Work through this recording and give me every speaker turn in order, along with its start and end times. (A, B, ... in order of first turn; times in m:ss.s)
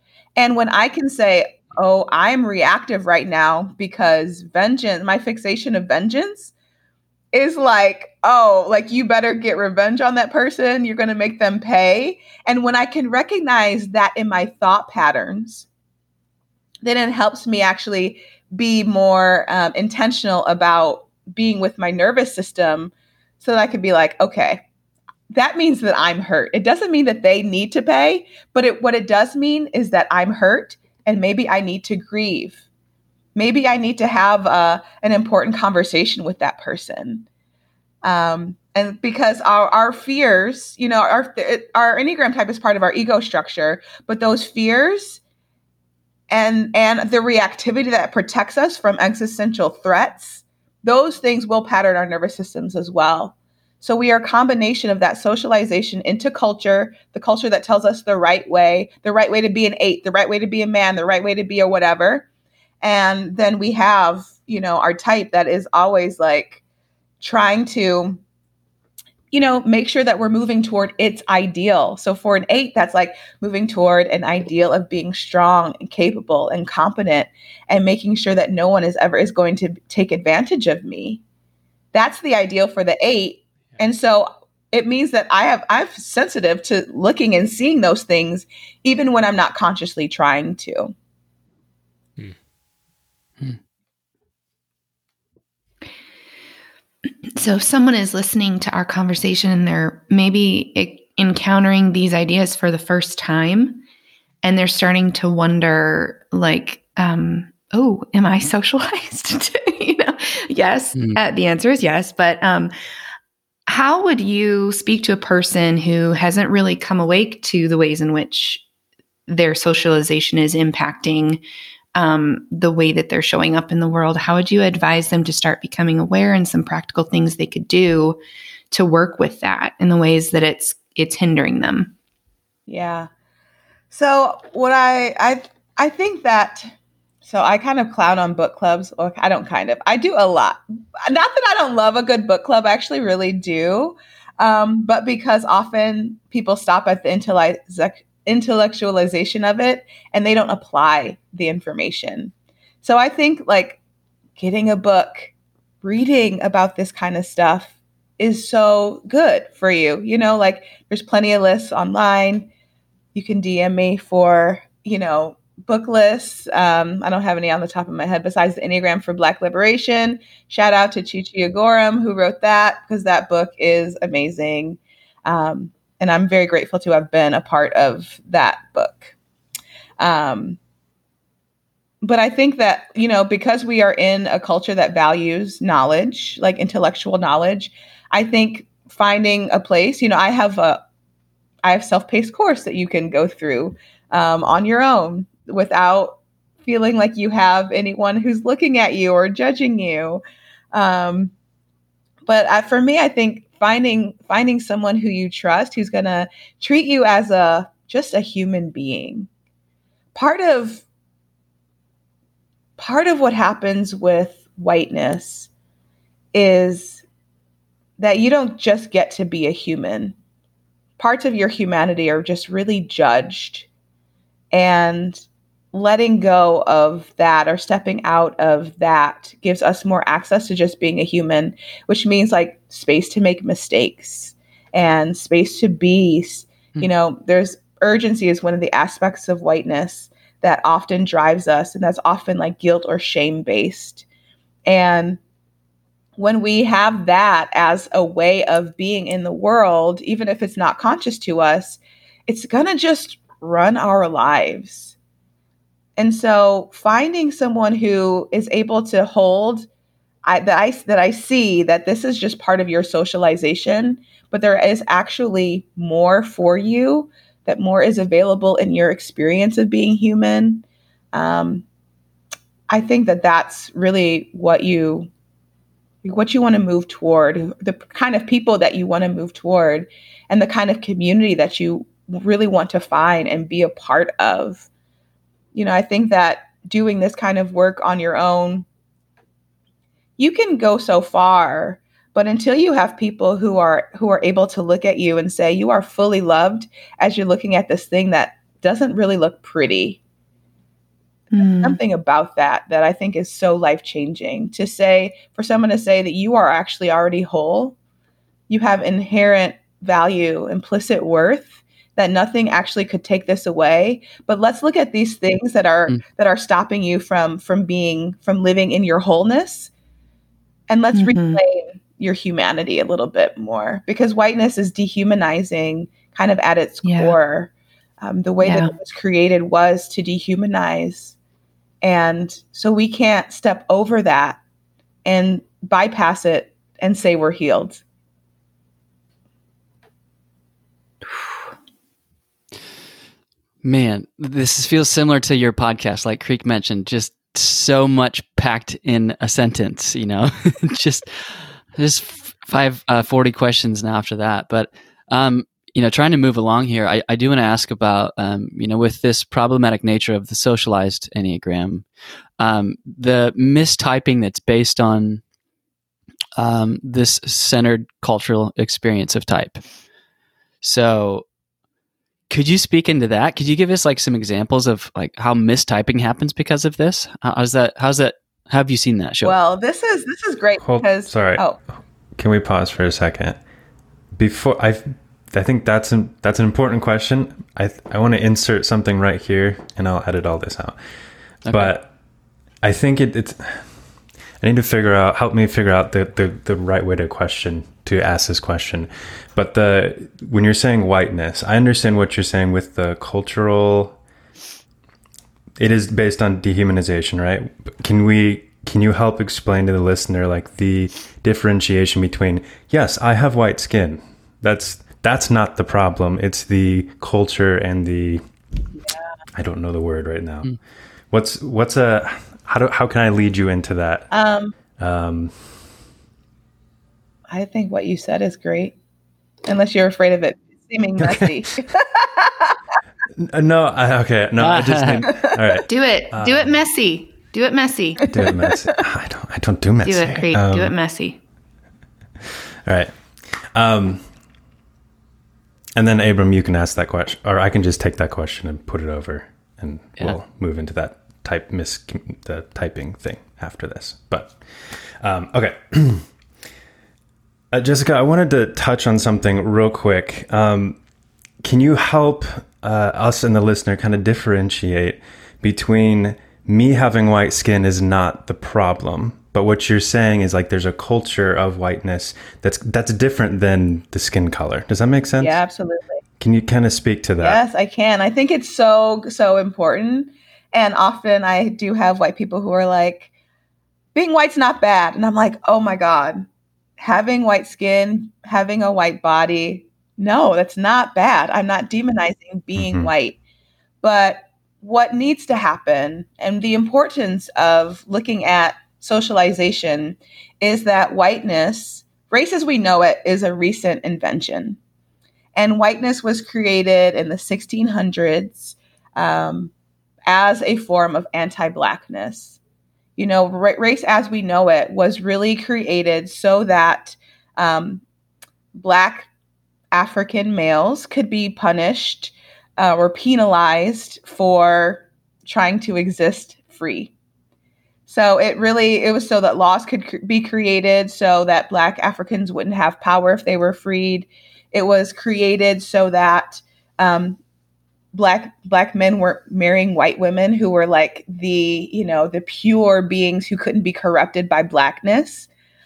0:00.4-0:06.5 A
0:07.3-0:15.7 A
0:16.8-0:24.6 A
0:25.3-0:32.6 A
0:33.3-0:37.2 A
0:38.0-0:45.2 A
0:46.3-1:02.2 A
1:02.8-1:06.6 A
1:07.2-1:08.2 A
1:09.3-1:21.2 A
1:21.9-1:30.9 A
1:37.4-1:43.8 B
1:44.4-1:52.7 B
1:50.9-1:51.2 C
1:53.7-1:58.6 B
1:59.3-2:01.4 B
2:01.9-2:08.2 B
2:08.7-2:11.9 B
2:12.7-2:13.1 A
2:13.9-2:16.7 A
2:17.2-2:33.8 A
2:34.4-2:35.3 A
2:35.8-2:42.5 A
2:43.1-2:59.1 A
3:00.0-3:00.6 A
3:02.0-3:10.8 A
3:11.6-3:20.2 A
3:20.7-3:21.3 A
3:22.2-3:29.3 A
3:30.1-3:30.8 A
3:32.8-3:35.5 A
3:36.3-3:37.0 A
3:38.0-3:40.1 A
3:41.0-3:43.7 A
3:44.5-4:04.0 A
4:04.7-4:05.2 A
4:06.2-4:15.0 A
4:16.0-4:19.7 A
4:20.2-4:31.6 A
4:32.7-4:35.1 A
4:36.0-4:44.7 A
4:45.5-4:48.6 A
4:50.2-5:00.0 A
5:01.3-5:01.8 B
5:01.6-5:07.8 A
5:08.5-5:19.7 A
5:20.7-5:31.2 A
5:20.9-5:21.4 B
5:26.8-5:27.2 B
5:28.4-5:28.7 B
5:31.8-5:34.4 A
5:35.0-5:37.8 A
5:43.6-6:01.9 C
6:02.4-6:05.2 C
6:06.4-6:09.6 C
6:10.6-6:11.2 C
6:12.3-6:19.4 C
6:19.2-6:21.6 A
6:20.6-6:21.5 D
6:22.2-6:23.4 D
6:24.1-6:30.8 D
6:31.4-6:31.7 C
6:31.5-6:31.9 D
6:32.6-6:33.7 D
6:34.4-6:44.0 D
6:45.6-6:58.2 D
6:59.3-7:00.5 D
7:01.1-7:04.1 D
7:04.1-7:04.5 A
7:04.8-7:05.5 D
7:07.3-7:08.7 A
7:09.4-7:12.5 A
7:13.2-7:16.6 D
7:14.4-7:15.0 C
7:15.7-7:18.2 B
7:18.1-7:20.7 D
7:19.8-7:21.2 B
7:22.6-7:24.0 D
7:25.8-7:36.1 D
7:37.5-7:40.8 D
7:41.4-7:55.4 D
7:55.2-7:56.0 A
7:56.2-7:57.4 D
7:57.2-8:03.1 A
8:03.9-8:06.3 A
8:06.8-8:13.2 A
8:12.6-8:12.9 D
8:13.8-8:24.6 A
8:25.3-8:29.5 A
8:30.1-8:32.4 A
8:33.0-8:37.8 A
8:38.5-8:39.1 A
8:39.7-8:46.9 A
8:47.9-8:57.2 A
8:57.9-9:05.3 A